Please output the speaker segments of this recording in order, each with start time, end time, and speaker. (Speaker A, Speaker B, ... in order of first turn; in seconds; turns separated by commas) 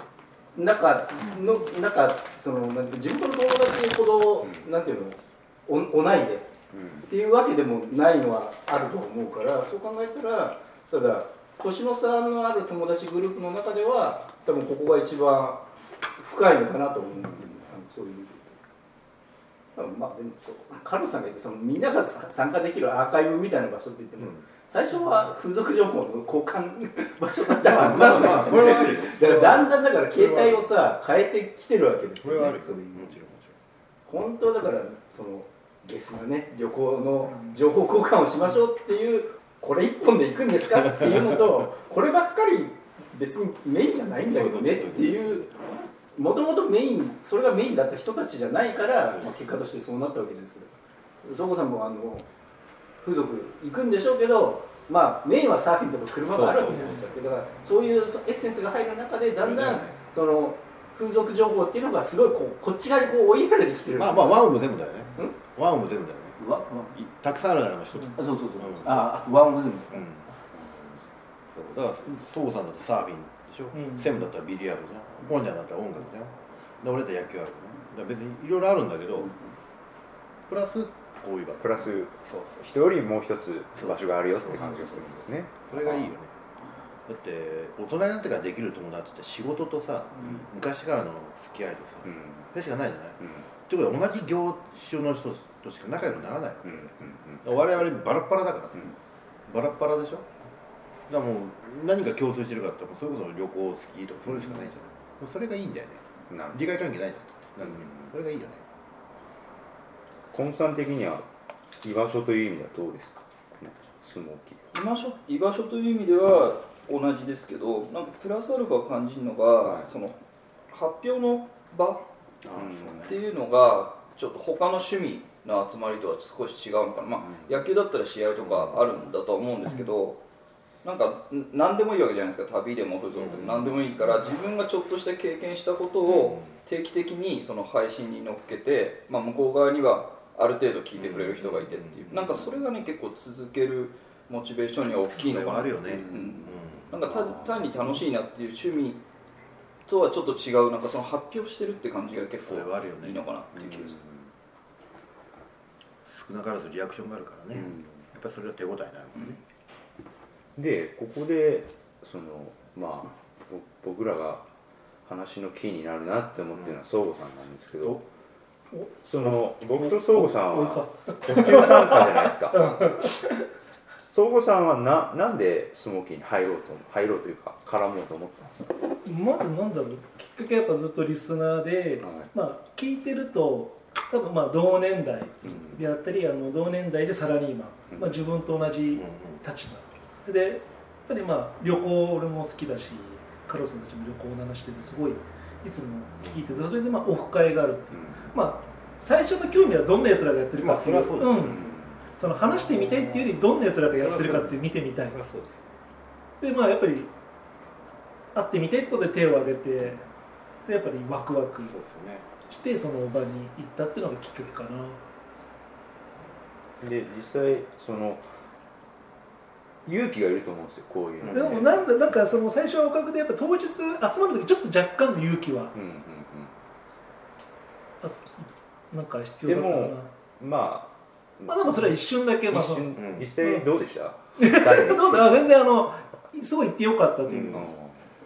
Speaker A: 0.6-6.5, Speaker B: 4.4-4.7, Speaker B: 6.7-7.1, Speaker A: 7.0-15.7, Speaker A: 16.2-18.6, Speaker A: 19.8-32.9, Speaker C: 24.2-24.5, Speaker C: 27.6-30.7, Speaker C: 32.2-33.6, Speaker A: 34.1-45.5, Speaker D: 37.3-37.6, Speaker C: 44.3-45.8, Speaker A: 46.1-52.3, Speaker A: 53.0-64.5, Speaker B: 56.3-57.0, Speaker D: 56.7-57.0, Speaker B: 59.4-60.0, Speaker C: 64.0-66.4, Speaker A: 66.4-67.0, Speaker C: 66.9-70.3, Speaker A: 68.2-70.0, Speaker B: 70.5-71.0, Speaker C: 71.5-79.3, Speaker D: 73.7-74.1, Speaker C: 80.5-82.6, Speaker B: 81.6-86.1, Speaker C: 83.8-86.3, Speaker C: 87.1-99.0, Speaker B: 92.0-92.5, Speaker B: 93.2-93.5, Speaker B: 96.1-97.8, Speaker C: 99.5-100.3, Speaker C: 101.1-108.6, Speaker B: 104.3-104.7, Speaker B: 106.3-106.6, Speaker B: 107.6-108.1, Speaker B: 110.3-111.3, Speaker B: 111.8-114.6, Speaker E: 114.7-120.2, Speaker B: 119.6-119.9, Speaker E: 120.7-122.1, Speaker C: 122.4-123.2, Speaker B: 122.5-123.1, Speaker E: 123.0-130.2, Speaker B: 127.2-127.7, Speaker B: 128.4-128.8, Speaker E: 130.8-149.0, Speaker C: 133.1-134.0, Speaker C: 136.1-136.5, Speaker C: 141.0-142.6, Speaker C: 145.1-147.1, Speaker B: 145.9-146.5, Speaker B: 147.0-147.9, Speaker E: 149.8-154.0, Speaker C: 152.4-153.3, Speaker B: 153.6-154.3, Speaker C: 156.1-159.4, Speaker B: 157.6-157.9, Speaker B: 160.6-164.5, Speaker B: 165.1-168.0, Speaker D: 168.7-173.2, Speaker B: 169.0-173.0, Speaker B: 174.1-178.7, Speaker D: 179.0-205.2, Speaker B: 182.0-182.3, Speaker B: 185.4-185.8, Speaker B: 187.9-188.2, Speaker C: 188.9-189.4, Speaker B: 197.9-198.3, Speaker C: 200.6-201.8, Speaker B: 201.3-202.0, Speaker C: 202.5-203.3, Speaker C: 203.9-205.8, Speaker D: 206.4-207.1, Speaker D: 208.3-210.0, Speaker D: 210.7-211.7, Speaker C: 211.6-212.3, Speaker D: 212.5-215.0, Speaker B: 216.8-218.4, Speaker B: 219.9-221.8, Speaker C: 221.2-221.6, Speaker D: 221.3-225.7, Speaker B: 225.7-226.5, Speaker D: 228.0-230.1, Speaker B: 229.4-235.5, Speaker D: 231.5-233.7, Speaker C: 233.0-233.3, Speaker D: 234.4-237.7, Speaker C: 237.3-237.6, Speaker B: 237.5-238.1